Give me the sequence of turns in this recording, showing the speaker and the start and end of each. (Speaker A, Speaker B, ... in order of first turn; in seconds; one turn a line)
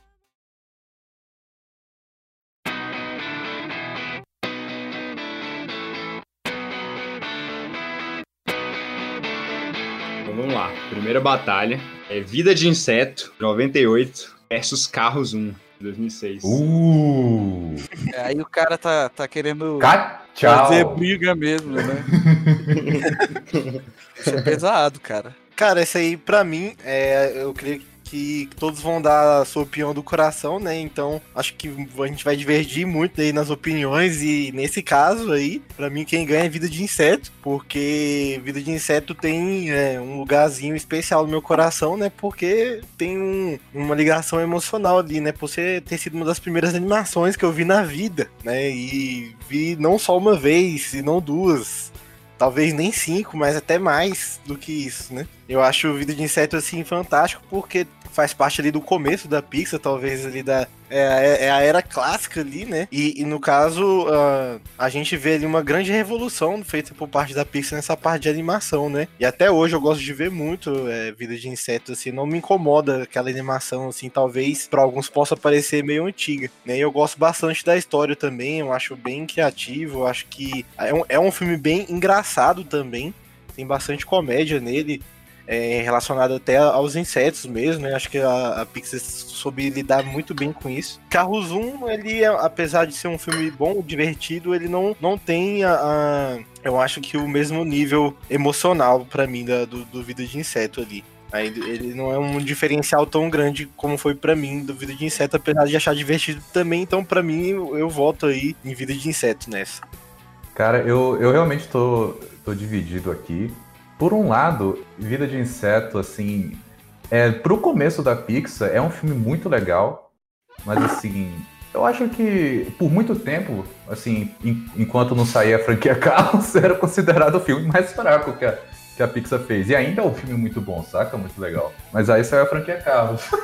Speaker A: 10.3-16.6
Speaker B: 16.4-17.9
Speaker C: 18.1-22.1
Speaker B: 19.8-21.1
Speaker B: 22.1-22.8
Speaker A: 22.7-24.5
Speaker C: 24.2-25.4
Speaker D: 25.6-109.8
Speaker B: 110.5-120.1
Speaker B: 120.7-133.2